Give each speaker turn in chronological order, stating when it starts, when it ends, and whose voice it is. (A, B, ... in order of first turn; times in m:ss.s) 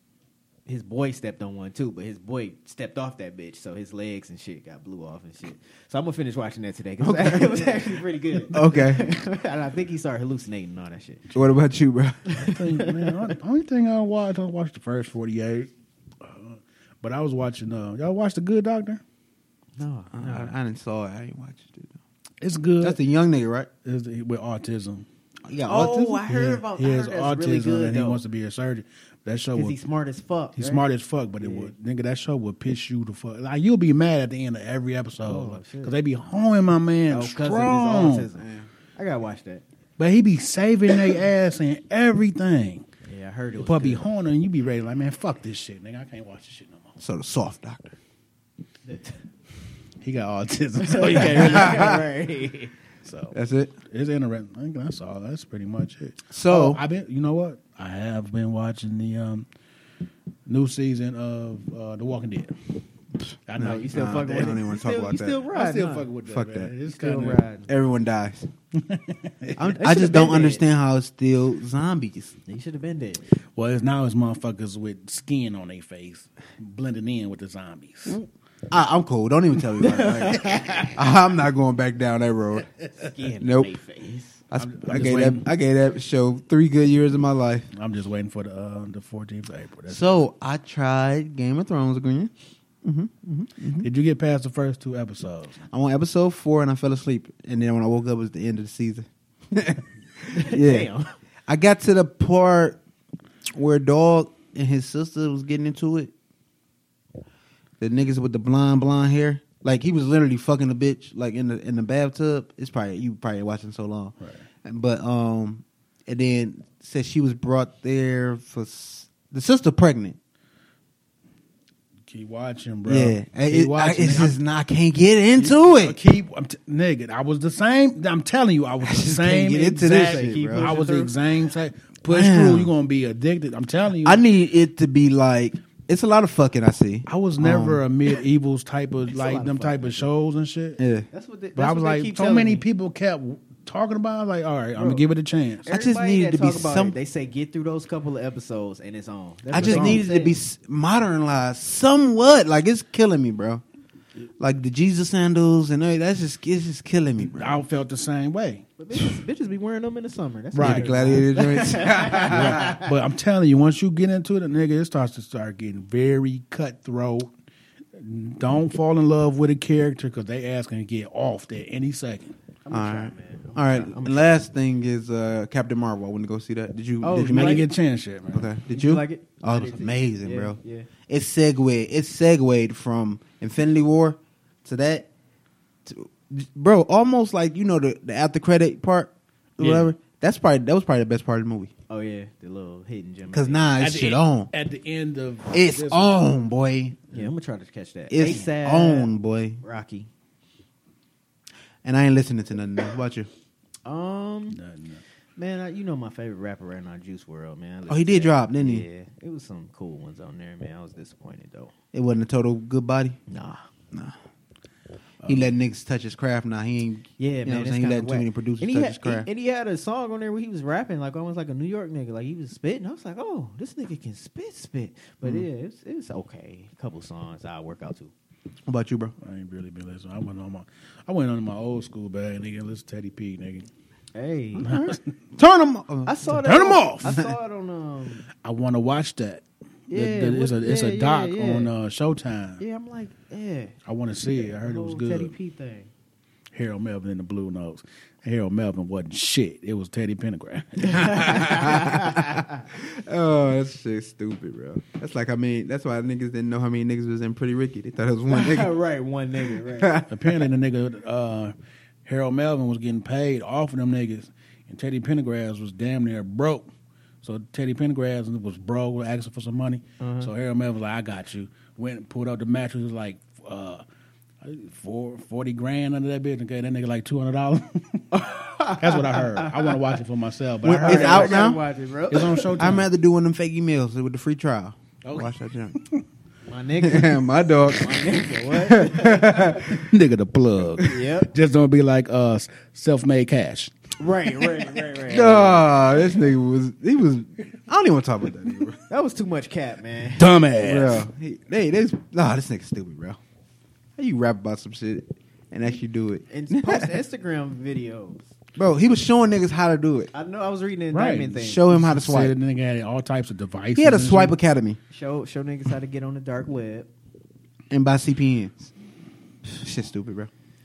0:00.7-0:11.3 A
0:07.0-0:08.0 B
0:08.5-0:09.1 B
0:11.3-0:12.2 B
0:12.2-0:13.3 A
0:12.4-0:15.7 C
0:16.2-0:19.0 C
0:19.8-0:20.5 A
0:20.1-0:22.0 B
0:22.4-0:23.0 C
0:22.8-0:23.7 B
0:23.8-0:25.0 C
0:25.5-0:26.2 B
0:25.6-0:28.2 A
0:26.3-0:29.8 C
0:29.5-0:30.8 A
0:30.6-0:38.3 C
0:31.4-0:31.7 A
0:35.2-0:35.9 A
0:37.1-0:39.6 A
0:38.4-0:38.7 B
0:40.0-0:42.8 C
0:43.0-0:44.1 A
0:43.6-0:46.9 C
0:47.0-0:48.0 B
0:48.9-0:49.2 A
0:50.0-0:52.0 C
0:50.8-0:52.7 A
0:51.5-0:51.9 B
0:53.0-0:53.3 C
0:53.3-0:53.7 B
0:53.8-0:59.5 C
0:56.3-0:56.8 B
1:00.5-1:02.5 C
1:03.5-1:04.3 C
1:03.6-1:06.1 A
1:03.6-1:05.4 B
1:05.5-1:07.4 C
1:06.2-1:06.7 B
1:06.9-1:07.7 A
1:07.7-1:08.5 B
1:08.8-1:09.9 C
1:09.6-1:12.3 B
1:09.8-1:10.6 A
1:12.4-1:13.2 A
1:13.5-1:18.2 C
1:18.1-1:22.7 B
1:19.8-1:21.0 A
1:23.0-1:24.4 A
1:23.4-1:23.7 B
1:24.5-1:27.7 B
1:24.6-1:25.4 C
1:27.7-1:30.2 C
1:29.9-1:32.3 B
1:32.8-1:33.9 B
1:33.8-1:35.6 C
1:35.7-1:40.9 B
1:40.3-1:41.1 A
1:41.5-1:42.8 B
1:43.5-1:46.1 B
1:47.8-2:00.2 B
2:02.1-2:04.4 C
2:02.8-2:06.0 B
2:05.4-2:14.2 C
2:08.8-2:10.7 B
2:10.0-2:11.1 A
2:12.1-2:12.7 B
2:14.0-2:17.8 B
2:17.0-2:20.8 C
2:19.1-2:20.1 A
2:20.8-2:21.1 B
2:21.1-2:22.6 A
2:21.6-2:25.7 C
2:24.8-2:25.0 A
2:25.6-2:30.4 A
2:25.7-2:26.9 B
2:29.5-2:30.0 C
2:29.5-2:33.6 B
2:34.4-2:37.6 B
2:37.2-2:38.6 C
2:38.8-2:42.9 A
2:40.5-2:41.0 C
2:40.6-2:42.8 B
2:42.1-2:47.3 C
2:48.0-2:52.3 C
2:52.6-2:54.4 A
2:52.7-2:57.7 B
2:57.0-2:57.7 A
2:57.2-2:58.5 C
2:58.3-3:05.1 B
2:58.7-3:00.9 A
3:05.8-3:11.7 B
3:09.6-3:09.9 C
3:11.9-3:13.7 A
3:13.3-3:14.5 B
3:13.8-3:16.1 C
3:15.5-3:17.3 B
3:17.1-3:20.1 A
3:18.1-3:19.6 B
3:21.8-3:23.3 B
3:23.8-3:24.6 A
3:24.5-3:25.0 C
3:25.4-3:31.7 A
3:27.9-3:28.8 B
3:31.9-3:33.2 B
3:33.3-3:33.6 A
3:35.2-3:39.3 B
3:37.2-3:48.1 A
3:48.6-3:49.1 B
3:49.2-3:53.7 C
3:54.1-3:54.8 A
3:54.6-3:55.0 C
3:54.6-3:56.1 B
3:56.0-3:58.3 A
3:56.3-3:57.2 C
3:57.0-3:57.3 B
3:58.4-4:02.6 C
3:59.9-4:01.7 A
4:02.6-4:03.7 A
4:03.8-4:05.3 C
4:04.4-4:05.9 A
4:06.5-4:11.7 C
4:10.8-4:12.6 A
4:11.3-4:18.7 B
4:18.3-4:20.0 A
4:19.5-4:20.4 B
4:20.1-4:21.5 C
4:22.0-4:26.7 C
4:27.2-4:33.8 C
4:30.0-4:30.3 A
4:34.4-4:38.0 C
4:38.1-4:39.7 A
4:38.8-4:41.5 C
4:40.6-4:41.6 B
4:40.6-4:42.6 A
4:42.1-4:42.9 C
4:42.5-4:45.8 B
4:45.0-4:46.0 C
4:46.4-4:49.8 A
4:46.8-4:49.8 B
4:49.6-4:53.7 C
4:50.8-4:51.3 A
4:54.0-4:55.8 A
4:55.1-4:58.8 B
4:58.9-5:00.2 A
5:00.2-5:01.0 C
5:00.6-5:03.2 B
5:04.0-5:07.0 B
5:06.3-5:08.3 A
5:08.6-5:10.1 B
5:10.1-5:11.6 A
5:10.9-5:14.4 C
5:11.4-5:12.3 B
5:13.7-5:14.8 B
5:14.9-5:16.9 A
5:17.7-5:18.7 B
5:19.5-5:20.3 B